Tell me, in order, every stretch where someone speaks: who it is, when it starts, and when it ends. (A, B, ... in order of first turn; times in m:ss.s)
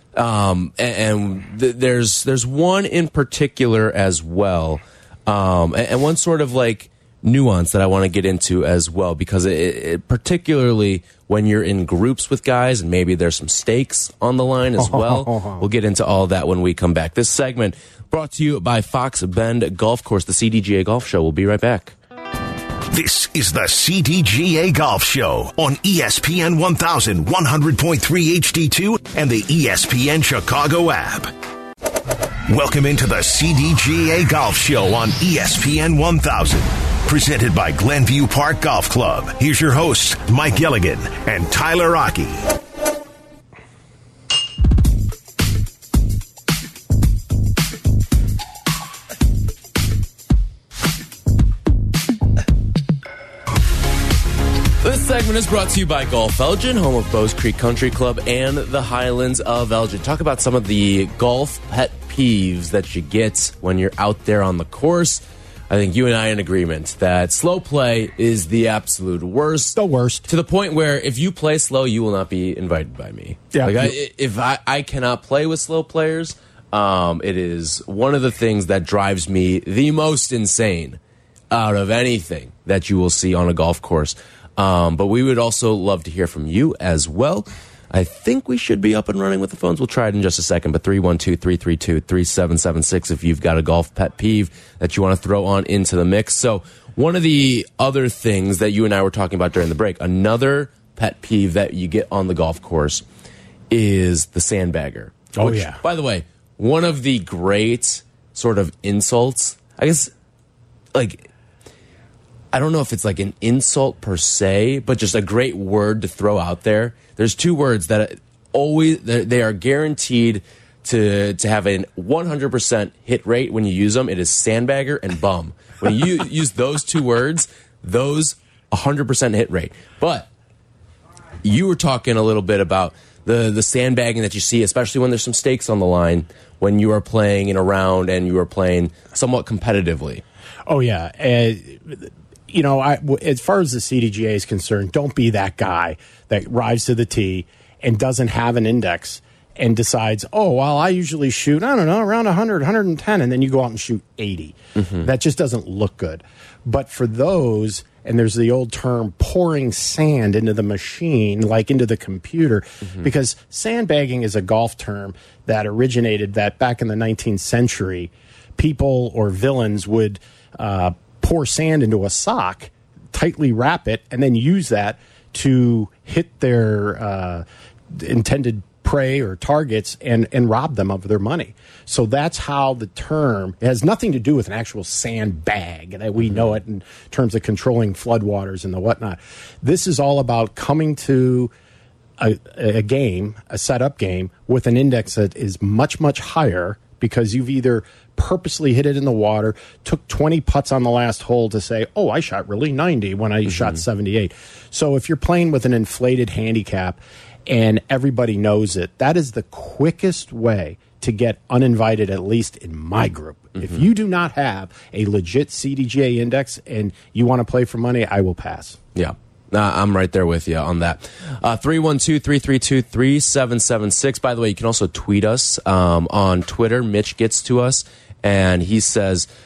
0:00.1-0:22.0 A
0:14.8-0:15.6 B
0:22.9-0:31.3 C
0:32.5-0:42.5 C
0:54.8-1:21.0 A
1:09.8-1:10.3 B
1:13.5-1:14.0 B
1:21.5-1:43.0 A
1:43.7-1:50.1 A
1:45.4-1:45.8 B
1:50.9-1:51.3 A
1:52.5-2:10.3 A
2:11.4-2:20.2 A
2:20.7-3:11.5 B
2:34.8-2:35.1 A
3:12.2-3:38.8 B
3:23.5-3:23.8 A
3:33.6-3:33.8 A
3:39.0-3:49.3 A